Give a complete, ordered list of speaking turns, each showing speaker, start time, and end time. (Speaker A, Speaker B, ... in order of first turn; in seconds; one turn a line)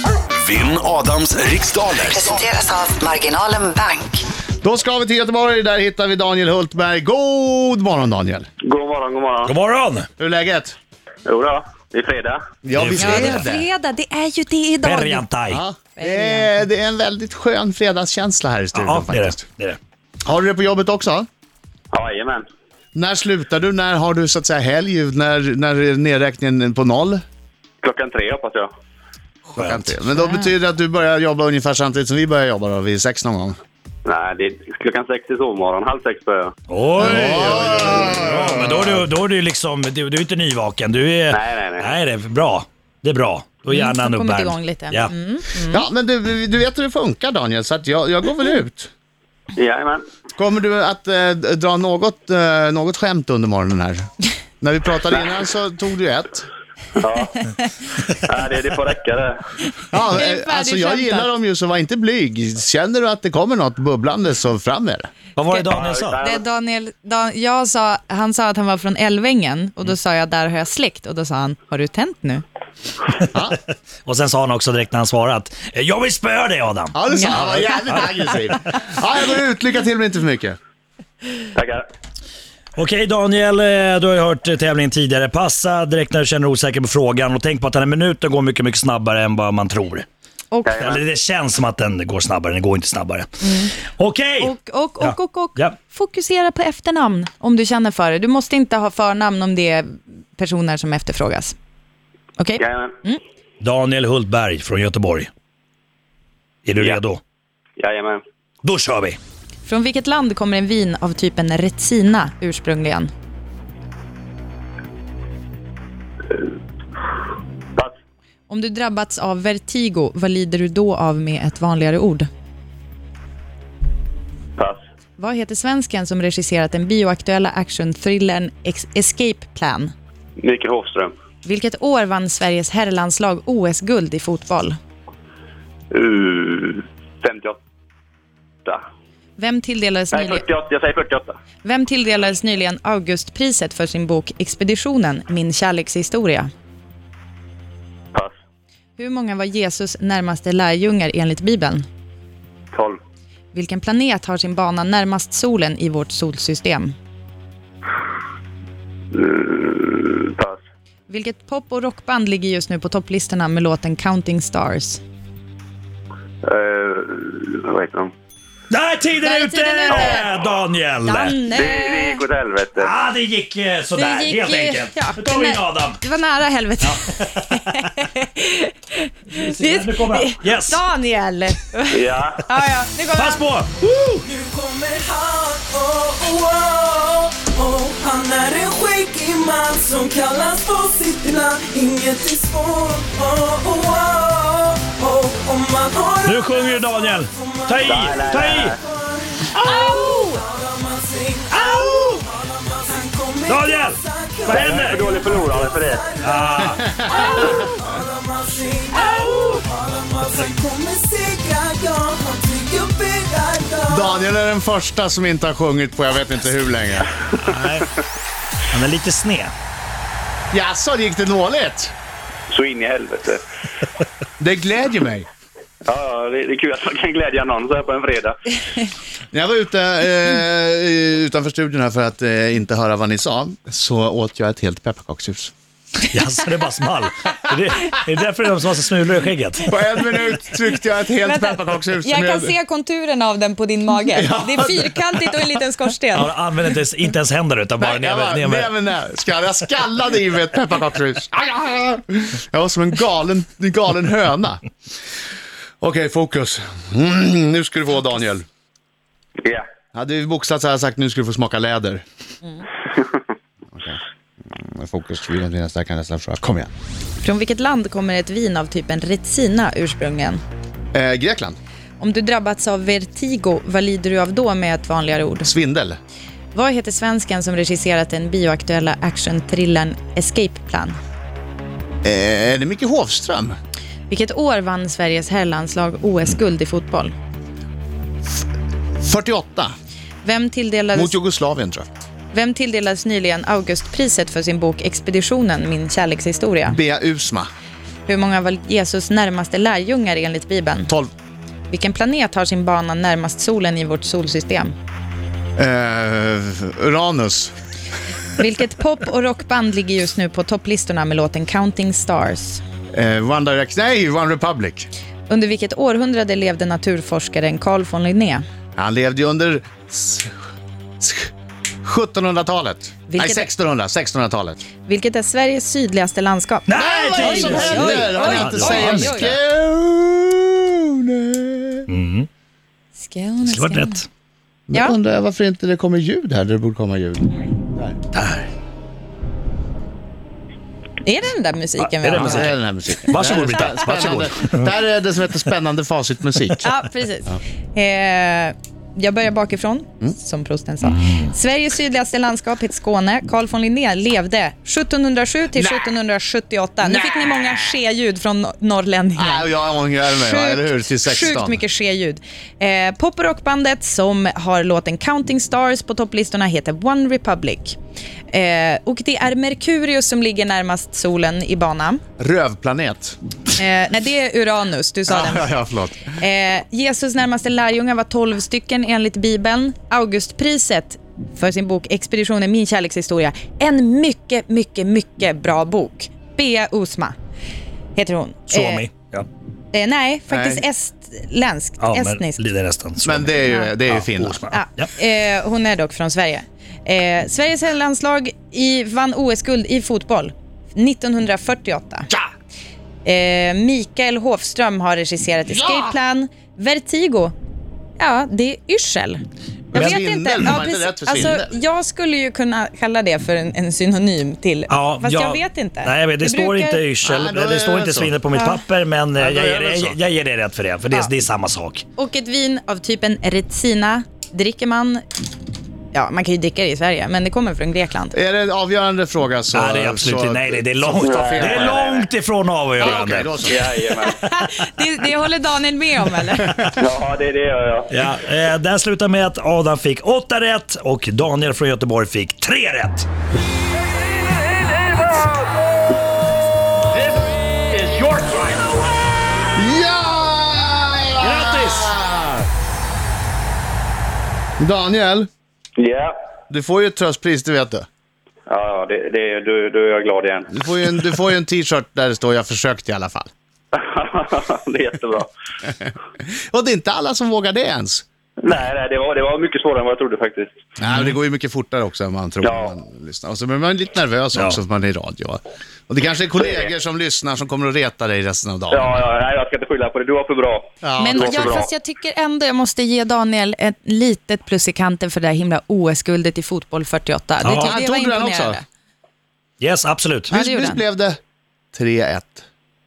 Speaker A: 0.3-2.4
Speaker B: 2.1-4.2
Speaker C: 4.6-8.5
Speaker D: 8.6-9.5
Speaker E: 9.4-10.1
Speaker C: 10.2-10.8
Speaker D: 11.2-12.4
Speaker C: 12.6-13.7
Speaker E: 12.7-13.4
Speaker F: 13.0-15.2
Speaker E: 14.8-15.6
Speaker C: 15.5-19.4
Speaker F: 15.9-16.6
Speaker E: 18.7-19.8
Speaker C: 20.2-21.3
Speaker D: 21.9-22.4
Speaker C: 22.9-27.2
Speaker D: 27.8-28.7
Speaker C: 29.5-33.6
Speaker E: 29.6-29.9
Speaker F: 30.2-30.5
Speaker D: 34.0-36.5
Speaker E: 36.7-45.1
Speaker C: 37.0-39.0
Speaker D: 41.3-41.9
Speaker F: 43.7-45.9
Speaker C: 45.7-48.9
Speaker D: 49.5-50.0
Speaker C: 50.4-54.1
Speaker C: 54.6-56.5
Speaker D: 57.0-57.5
Speaker D: 58.1-59.4
Speaker C: 59.9-65.1
Speaker F: 60.1-61.3
Speaker E: 65.3-66.2
Speaker F: 65.5-72.4
Speaker D: 65.7-66.4
Speaker C: 73.3-73.6
Speaker E: 74.0-78.1
Speaker C: 76.9-80.6
Speaker F: 77.1-77.4
Speaker D: 81.5-81.8
Speaker E: 82.8-90.0
Speaker D: 90.6-91.0
Speaker E: 90.8-93.3
Speaker F: 93.4-93.7
Speaker E: 93.8-95.8
Speaker F: 94.4-101.5
Speaker F: 102.4-103.2
Speaker D: 102.6-102.9
Speaker E: 103.6-105.3
Speaker E: 106.6-107.2
Speaker D: 107.8-108.2
Speaker E: 108.6-109.2
Speaker F: 109.6-113.1
Speaker F: 118.5-122.3
Speaker F: 125.2-129.9
Speaker D: 130.4-131.1
Speaker F: 131.4-134.8
Speaker D: 135.9-137.6
Speaker F: 139.4-140.4
Speaker D: 140.1-141.3
Speaker F: 141.6-146.5
Speaker F: 149.0-151.8
Speaker D: 152.7-153.0
Speaker F: 153.5-156.9
Speaker D: 159.1-160.6
Speaker F: 161.1-165.0
Speaker D: 166.4-168.1
Speaker E: 168.7-171.4
Speaker F: 169.2-170.3
Speaker D: 169.9-170.2
Speaker F: 171.0-172.2
Speaker D: 171.5-172.9
Speaker E: 172.8-176.0
Speaker F: 174.0-183.4
Speaker E: 176.8-178.1
Speaker E: 179.3-180.8
Speaker D: 181.9-182.4
Speaker E: 183.2-184.2
Speaker G: 184.2-214.2
Speaker E: 196.2-198.7
Speaker D: 197.8-198.8
Speaker F: 199.6-200.4
Speaker E: 201.5-202.3
Speaker E: 203.5-205.0
Speaker D: 204.4-206.0
Speaker E: 206.2-206.9
Speaker C: 206.7-207.3
Speaker C: 213.9-217.2
Speaker E: 217.4-217.9
Speaker E: 218.7-219.5
Speaker C: 220.5-221.9
Speaker D: 222.5-223.4
Speaker C: 224.4-225.3
Speaker D: 225.8-228.4
Speaker C: 229.3-235.5
Speaker E: 236.1-239.7
Speaker C: 239.7-242.5
Speaker F: 241.2-246.3
Speaker C: 244.1-245.4
Speaker E: 246.1-248.7
Speaker C: 247.8-254.6
Speaker C: 255.8-258.4
Speaker C: 259.9-262.0
Speaker C: 263.7-266.7
Speaker F: 267.2-270.4
Speaker C: 270.9-271.6
Speaker F: 272.0-275.5
Speaker C: 275.4-276.0
Speaker F: 276.5-280.9
Speaker C: 282.0-283.6
Speaker F: 284.1-287.1
Speaker C: 289.0-289.7
Speaker F: 290.2-291.1
Speaker C: 290.9-291.9
Speaker F: 292.3-296.8
Speaker C: 296.7-297.5
Speaker F: 298.1-300.9
Speaker F: 301.7-304.7
Speaker C: 305.6-307.5
Speaker F: 308.4-312.6
Speaker C: 312.9-314.9
Speaker F: 315.3-318.4
Speaker C: 318.8-320.3
Speaker C: 321.0-321.3
Speaker C: 321.8-324.6
Speaker F: 323.1-323.5
Speaker F: 324.8-329.3
Speaker E: 326.7-329.4
Speaker C: 326.8-331.9
Speaker E: 331.9-332.3
Speaker F: 332.9-334.0
Speaker E: 333.4-334.1
Speaker C: 334.7-338.0
Speaker E: 338.1-338.5
Speaker F: 341.0-342.5
Speaker E: 341.8-344.7
Speaker C: 342.1-346.7
Speaker F: 346.6-359.5
Speaker C: 355.6-355.9
Speaker C: 356.8-357.7
Speaker C: 359.1-361.6
Speaker F: 360.1-367.8
Speaker F: 368.3-372.0
Speaker C: 372.2-373.2
Speaker F: 373.6-375.5
Speaker C: 375.1-376.1
Speaker F: 376.1-387.1
Speaker F: 387.9-388.9
Speaker E: 388.5-389.2
Speaker F: 389.7-392.4
Speaker C: 390.3-390.6
Speaker E: 391.8-393.3
Speaker C: 393.0-394.4
Speaker F: 393.4-393.7
Speaker E: 393.9-394.9
Speaker F: 394.5-402.1
Speaker F: 403.0-407.3
Speaker C: 405.5-406.0
Speaker F: 408.0-416.8
Speaker C: 409.7-411.5
Speaker E: 409.7-410.6
Speaker E: 414.7-421.8
Speaker C: 417.0-418.1
Speaker F: 418.3-418.6
Speaker C: 419.2-419.9
Speaker F: 421.9-425.0
Speaker F: 425.9-428.1
Speaker C: 428.1-431.8
Speaker E: 429.5-433.6
Speaker D: 431.0-432.1
Speaker C: 432.8-433.7
Speaker D: 433.4-434.2
Speaker F: 434.1-436.7
Speaker D: 436.8-437.9
Speaker E: 437.9-443.1
Speaker A: 448.1-448.5
Speaker C: 449.5-452.4
Speaker E: 451.2-451.9
Speaker C: 454.6-455.3
Speaker D: 455.8-456.1
Speaker C: 456.5-457.9
Speaker D: 458.5-460.6
Speaker C: 460.5-463.3
Speaker D: 463.7-465.3
Speaker C: 466.5-468.0
Speaker D: 468.4-470.5
Speaker C: 470.8-479.0
Speaker D: 472.4-472.7
Speaker E: 474.3-474.6
Speaker D: 476.4-476.7
Speaker D: 478.7-481.7
Speaker C: 480.8-481.6
Speaker F: 481.0-488.6
Speaker E: 487.4-487.8
Speaker C: 487.6-488.6
Speaker E: 489.6-490.3
Speaker F: 490.3-490.8
Speaker C: 490.3-491.2
Speaker C: 491.7-492.4